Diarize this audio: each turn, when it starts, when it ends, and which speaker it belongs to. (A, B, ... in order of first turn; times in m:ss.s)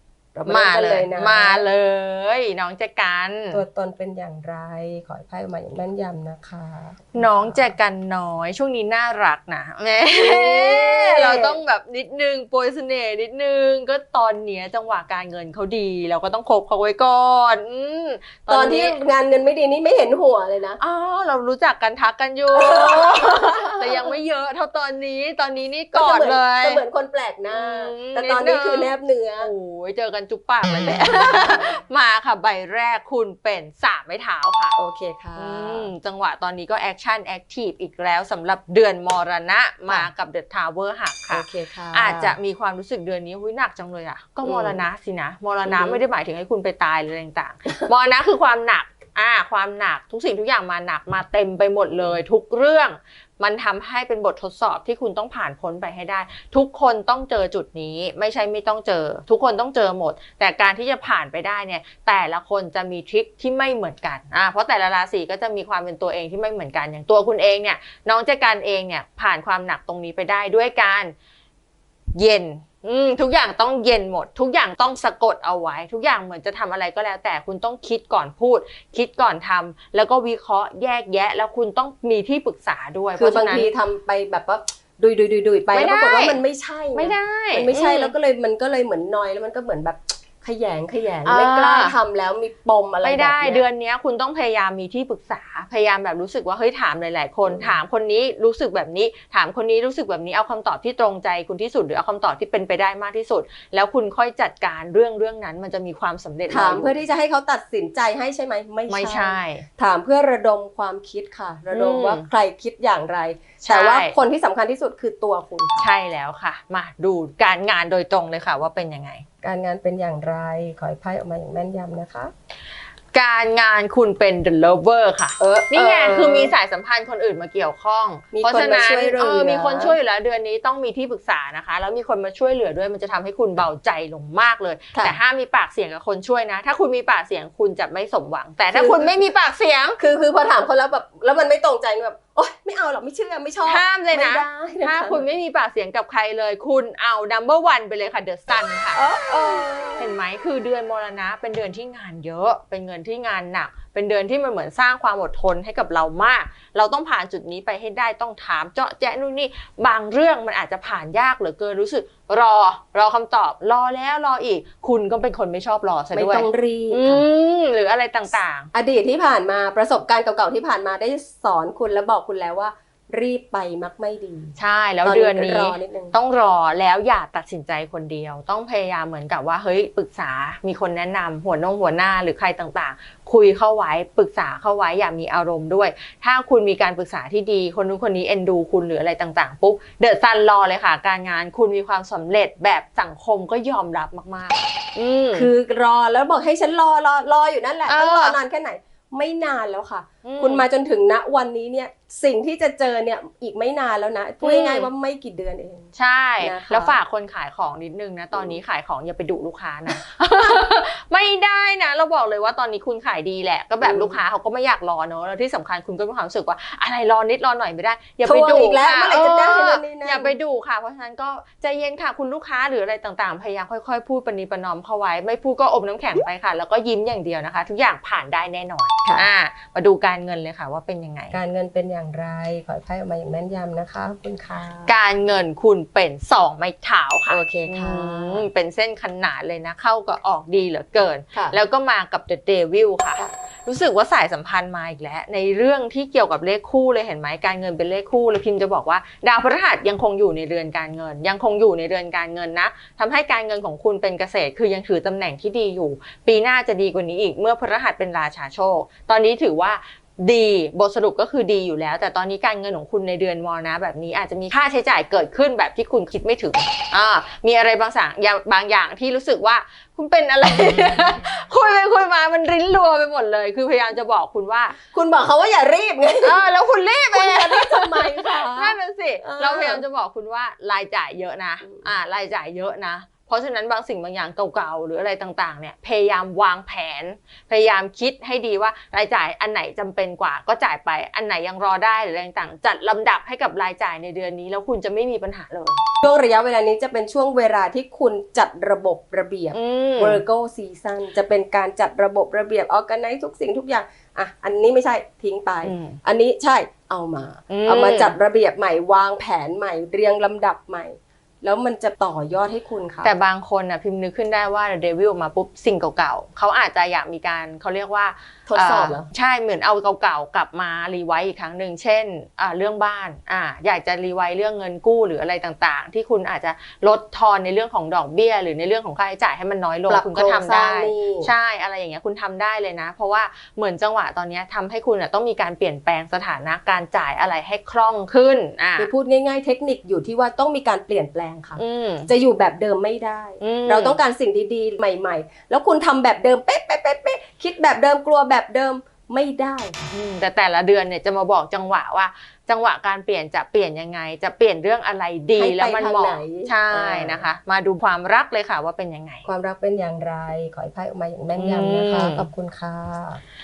0:00.3-0:01.6 A
0:00.4-0:03.6 B
0:03.5-0:07.7 A
0:07.1-0:19.0 B
0:10.1-0:11.6 A
0:18.5-0:20.8 A
0:20.8-0:26.8 B
0:22.5-0:24.1 A
0:25.9-0:29.5 A
0:27.5-0:34.8 B
0:30.8-0:31.8 A
0:34.7-0:35.9 A
0:35.4-1:11.1 B
0:41.3-0:42.4 A
0:44.4-0:44.8 A
0:45.6-0:46.0 A
1:12.1-1:23.7 B
1:23.2-1:33.6 A
1:25.7-1:26.4 B
1:26.9-1:28.1 B
1:31.2-1:31.9 B
1:33.0-1:47.0 B
1:37.4-1:37.8 A
1:46.5-1:55.9 A
1:48.9-1:49.6 B
1:51.7-1:52.2 B
1:53.6-1:54.1 B
1:55.8-1:59.2 B
1:59.4-2:02.3 A
2:03.1-2:20.0 B
2:05.4-2:06.5 A
2:08.3-2:10.0 A
2:18.7-2:19.2 A
2:20.0-2:25.3 A
2:23.6-2:48.7 B
2:28.9-2:30.1 A
2:46.1-2:47.2 A
2:48.7-2:56.2 A
2:54.6-3:15.5 B
3:15.3-3:27.0 A
3:17.9-3:18.4 B
3:20.2-3:20.6 B
3:24.4-3:24.9 B
3:25.9-3:51.4 B
3:33.8-3:34.2 A
3:38.2-3:40.3 A
3:51.3-3:54.9 A
3:54.9-4:34.8 B
3:57.3-3:58.5 A
4:34.9-4:36.4 A
4:36.2-4:55.8 B
4:37.1-4:39.8 A
4:56.0-5:13.1 A
4:59.5-5:00.2 B
5:05.6-5:06.0 B
5:07.5-5:08.1 B
5:13.0-5:38.9 B
5:18.5-5:19.1 A
5:29.9-5:31.3 A
5:38.8-5:49.9 A
5:41.6-5:42.1 B
5:43.4-5:44.0 B
5:49.9-5:59.2 B
5:55.4-5:57.2 A
5:59.2-6:03.2 A
6:01.4-6:02.3 B